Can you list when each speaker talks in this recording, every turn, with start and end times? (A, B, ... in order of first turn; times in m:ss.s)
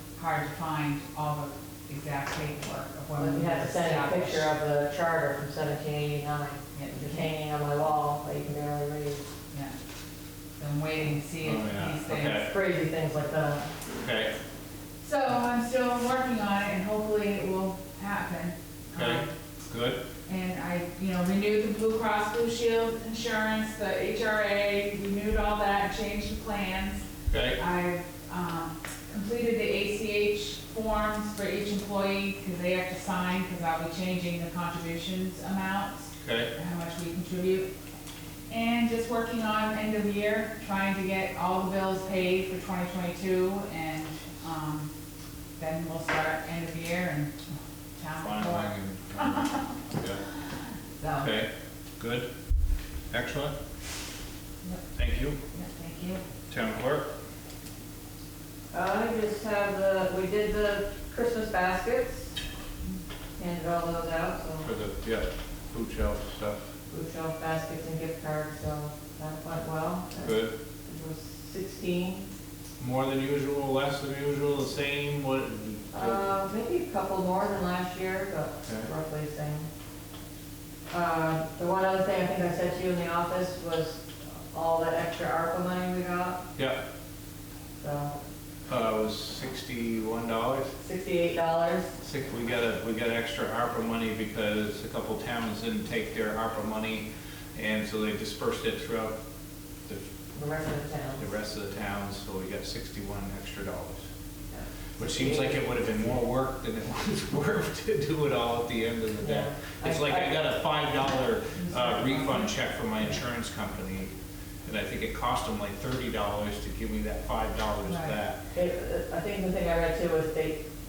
0:00.1-0:04.5 A
0:03.2-0:09.2 B
0:06.7-0:07.3 A
0:10.6-0:12.5 A
0:11.4-0:12.5 C
0:12.4-0:13.7 B
0:14.0-0:14.3 C
0:15.0-0:19.3 A
0:18.9-0:20.0 C
0:20.3-0:37.7 A
0:27.3-0:27.6 C
0:36.2-0:36.5 C
0:38.5-0:44.9 A
0:45.6-0:47.4 A
0:48.0-0:49.7 A
0:48.2-0:50.2 C
0:50.9-0:51.4 A
0:51.2-0:52.3 C
0:53.1-0:53.6 C
0:54.9-0:55.4 C
0:55.5-0:56.2 A
0:56.5-0:57.1 C
0:58.7-1:02.4 B
1:03.4-1:04.7 B
1:04.6-1:06.7 C
1:06.9-1:12.3 B
1:10.2-1:10.5 C
1:12.8-1:16.2 C
1:15.9-1:19.7 B
1:20.9-1:26.4 B
1:26.6-1:26.8 C
1:27.8-1:28.2 B
1:28.7-1:30.7 C
1:30.8-1:31.9 B
1:32.0-1:39.2 C
1:40.3-1:41.2 B
1:41.2-1:44.1 C
1:44.5-1:45.6 B
1:45.0-1:54.1 C
1:49.2-1:50.4 B
1:51.6-1:52.5 A
1:54.6-1:58.4 C
1:57.8-1:58.2 A
1:58.5-2:00.6 B